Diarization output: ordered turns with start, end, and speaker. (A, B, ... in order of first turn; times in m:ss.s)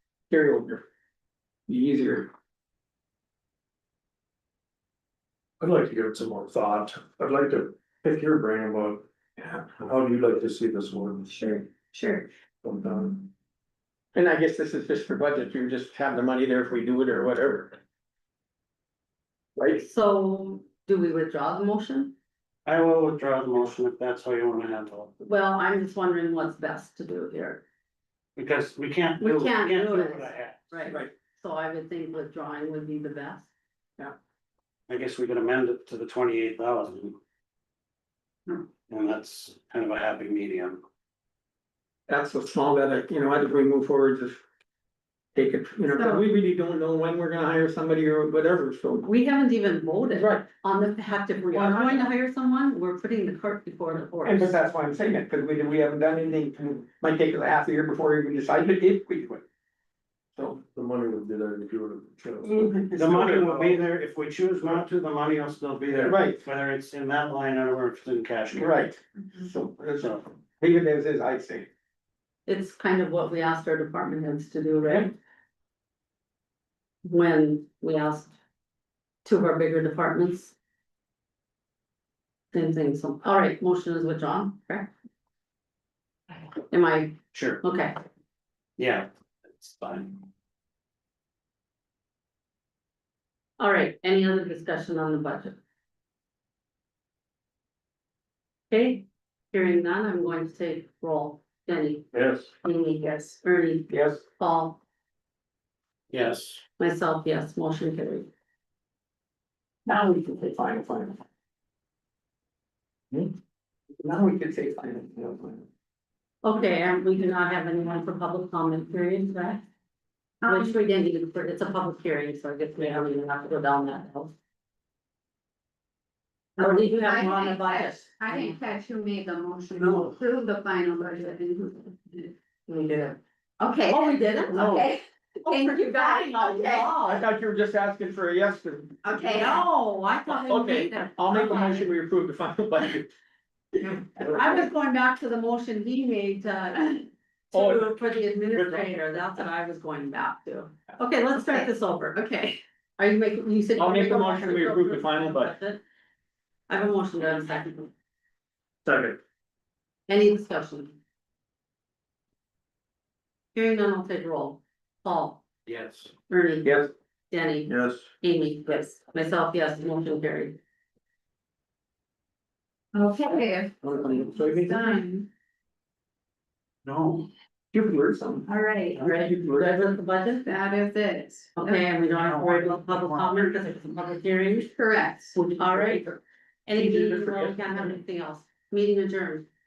0:00.3-0:00.8 A
0:01.7-0:02.3 A
0:05.6-0:09.1 B
0:09.6-0:11.4 B
0:11.3-0:12.2 C
0:12.6-0:13.2 B
0:14.1-0:17.8 A
0:19.6-0:19.8 A
0:19.8-0:22.1 C
0:22.6-0:25.1 D
0:25.2-0:27.6 C
0:28.4-0:30.9 D
0:29.2-0:33.5 C
0:34.9-0:37.2 D
0:38.9-0:40.8 D
0:42.1-0:44.4 A
0:45.3-0:49.1 A
0:46.0-0:46.2 C
0:49.0-0:54.5 C
0:50.1-0:50.4 A
0:54.2-0:59.4 A
1:00.4-1:00.6 A
1:00.7-1:02.5 B
1:02.4-1:03.8 A
1:02.9-1:08.8 D
1:06.0-1:06.4 A
1:08.5-1:11.7 A
1:10.0-1:10.2 D
1:12.4-1:15.1 C
1:17.0-1:18.3 C
1:19.2-1:20.5 C
1:22.5-1:24.9 C
1:26.7-1:28.0 C
1:27.3-1:27.6 D
1:28.8-1:30.2 D
1:33.6-1:35.6 C
1:38.7-1:42.1 C
1:42.1-1:42.5 B
1:42.6-1:44.8 C
1:43.9-1:44.2 A
1:46.1-1:46.6 D
1:46.8-1:48.3 C
1:49.8-1:51.2 A
1:54.0-1:55.6 A
1:56.4-1:59.6 C
2:00.4-2:00.8 E
2:00.5-2:04.3 C
2:06.6-2:08.5 C
2:06.6-2:13.0 E
2:12.7-2:13.1 C
2:13.6-2:16.9 E
2:13.8-2:14.9 C
2:15.4-2:17.2 C
2:17.1-2:19.0 A
2:19.0-2:19.6 E
2:19.2-2:21.9 C
2:20.3-2:23.1 A
2:23.9-2:24.6 A
2:24.2-2:32.3 C
2:27.5-2:27.9 A
2:28.5-2:28.9 D
2:32.2-2:32.6 E
2:33.0-2:35.8 C
2:33.8-2:35.5 A
2:36.7-2:37.9 C
2:38.9-2:39.2 B
2:40.1-2:41.0 C
2:43.5-2:45.4 C
2:45.6-2:46.1 D
2:46.3-2:46.8 C
2:46.6-2:46.9 A
2:47.3-2:50.6 C
2:47.7-2:48.0 B
2:52.9-2:55.3 E
2:53.8-2:55.0 A
2:56.8-2:57.3 D
2:57.7-3:00.0 A
2:58.5-2:59.0 E
2:58.9-2:59.3 D
2:59.0-3:00.4 C
3:00.4-3:01.5 E
3:01.6-3:04.7 C
3:02.1-3:03.6 D
3:04.6-3:05.4 E
3:05.4-3:06.0 C
3:05.8-3:06.2 A
3:06.7-3:09.4 C
3:06.8-3:07.9 A